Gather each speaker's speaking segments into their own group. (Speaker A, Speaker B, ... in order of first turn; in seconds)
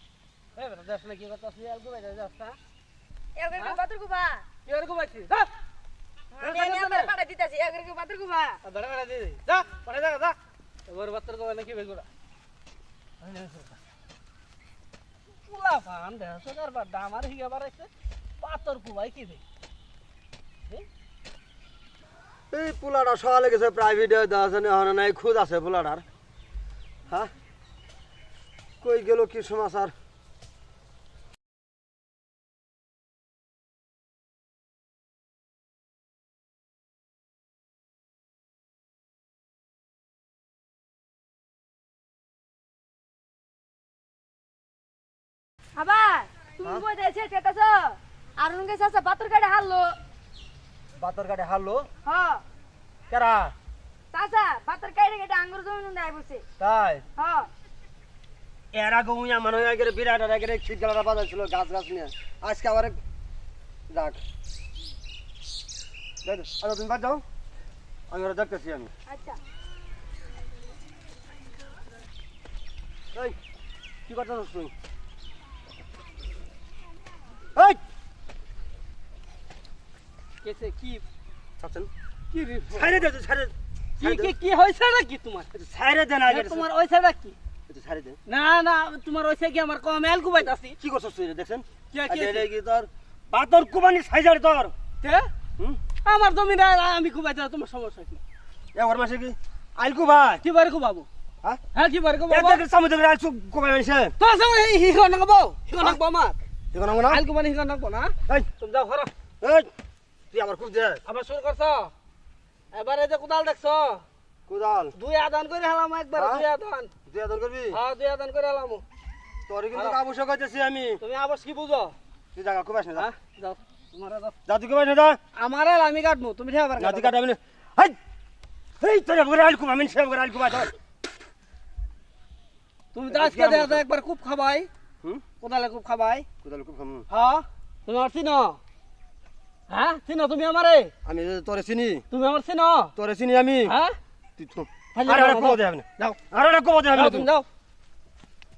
Speaker A: 0.5-2.6, 4.6-5.5, 6.4-7.1, 8.6-12.1, 13.2-13.8, 15.4-19.4, 80.4-81.0, 82.3-83.0, 84.0-85.5, 86.3-87.4, 88.2-90.8, 91.9-92.5, 95.0-95.3, 96.0-98.2, 100.4-101.1, 101.7-102.6, 104.2-106.4, 107.1-109.1, 111.0-111.9, 112.7-114.0, 114.9-116.9, 117.7-118.8, 119.7-120.0, 121.0-121.9, 122.9-124.3, 125.3-127.1, 132.9-134.7, 135.4-136.3, 137.1-138.6, 139.7-140.9, 142.1-142.9, 143.6-144.0, 144.9-146.2, 146.9-147.5
Speaker B: 3.4-4.4, 6.4-8.6, 45.7-50.0, 52.0-52.4, 54.1-56.4, 57.2-57.5, 69.1-69.4
Speaker C: 22.5-26.0, 28.8-29.9, 51.0-51.8, 53.1-53.5, 56.6-57.0, 58.7-63.0, 63.9-64.2, 66.2-67.2, 68.1-68.9, 74.1-74.7, 81.6-81.9, 82.7-84.3, 85.5-86.7, 87.7-88.2, 90.8-94.7, 98.7-100.4, 102.3-104.1, 106.7-107.2, 109.4-109.7, 110.3-111.0, 114.5-114.9, 116.2-116.5, 117.0-117.8, 119.5-121.0, 122.3-123.1, 124.5-125.2, 126.8-127.9, 128.8-130.7, 133.2-133.8, 136.4-137.0, 141.0-142.1, 142.9-143.8, 144.4-147.3